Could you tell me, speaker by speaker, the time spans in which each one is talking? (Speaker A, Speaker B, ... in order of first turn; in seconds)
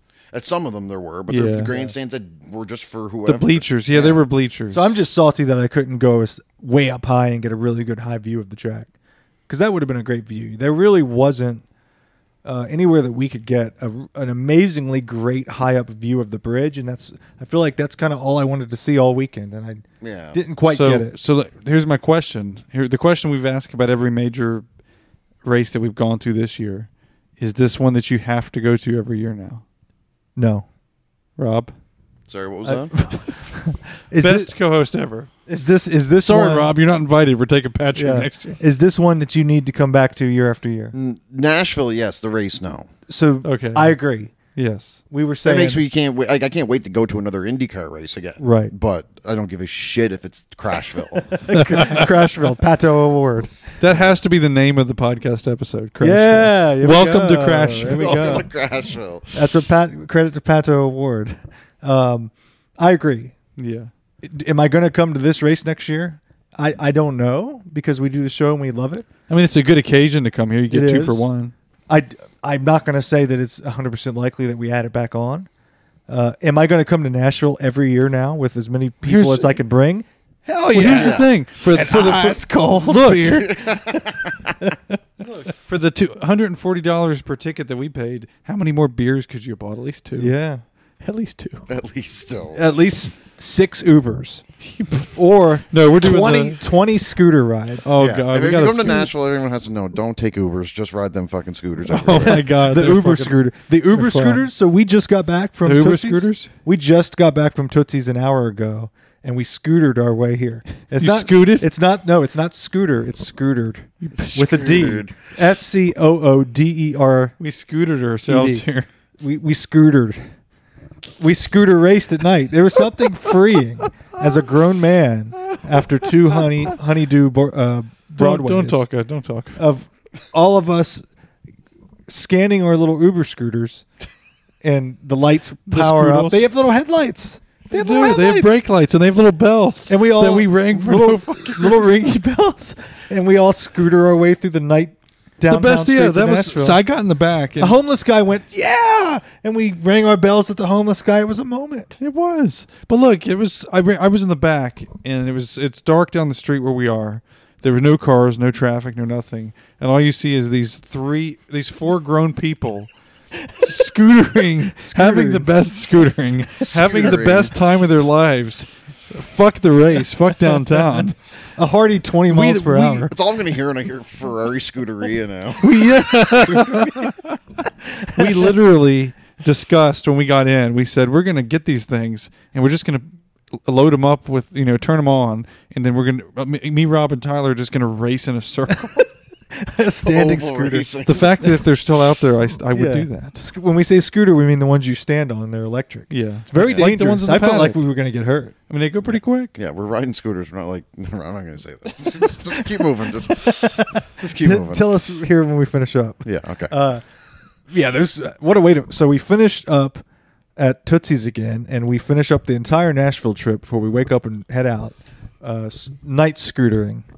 Speaker A: 0.3-4.2, 20.0-20.4, 32.3-33.0, 40.9-42.9, 45.4-51.3, 57.7-59.4, 80.9-81.3, 83.3-84.6, 91.7-92.6, 98.0-102.4, 114.2-115.2, 166.6-167.5, 173.1-176.0, 190.0-191.3, 199.6-204.9, 206.2-206.8
Speaker B: 1.3-1.7, 3.2-5.0, 20.7-24.6, 25.4-29.6, 31.4-31.7, 34.2-35.3, 36.2-38.6, 43.4-44.0, 44.5-45.0, 51.5-52.0, 53.8-58.4, 63.6-63.9, 69.3-71.5, 79.0-79.6, 80.5-83.8, 85.6-90.4, 91.0-91.7, 94.7-95.2, 95.7-96.6, 97.8-99.1, 101.9-104.4, 105.6-106.5, 111.0-111.7, 114.0-115.0, 117.4-118.9, 128.2-129.6, 135.7-136.5, 137.7-142.1, 145.5-147.8, 152.0-162.9, 163.6-171.2, 172.3-173.1, 175.6-177.4, 178.1-183.1, 183.6-189.1, 191.1-193.4, 196.1-197.8, 198.7-199.5
Speaker C: 1.7-1.9, 4.7-8.9, 9.5-11.6, 12.4-21.2, 30.4-30.7, 32.6-34.5, 35.5-36.8, 38.0-40.9, 43.1-44.4, 45.1-45.8, 48.4-48.7, 51.1-53.5, 56.0-58.5, 59.3-63.4, 64.2-69.1, 70.7-71.3, 71.9-75.5, 76.1-83.7, 90.2-90.6, 92.5-94.4, 95.1-97.9, 102.2-117.4, 118.3-118.7, 119.2-120.3, 121.2-128.8, 129.6-131.1, 132.1-133.9, 134.6-138.6, 139.9-146.8, 147.6-151.9, 163.5-163.8, 164.4-165.5, 171.6-173.1, 176.2-177.1, 177.9-178.5, 189.5-190.9, 192.7-198.6, 202.5-207.0, 207.7-210.0, 210.6-217.1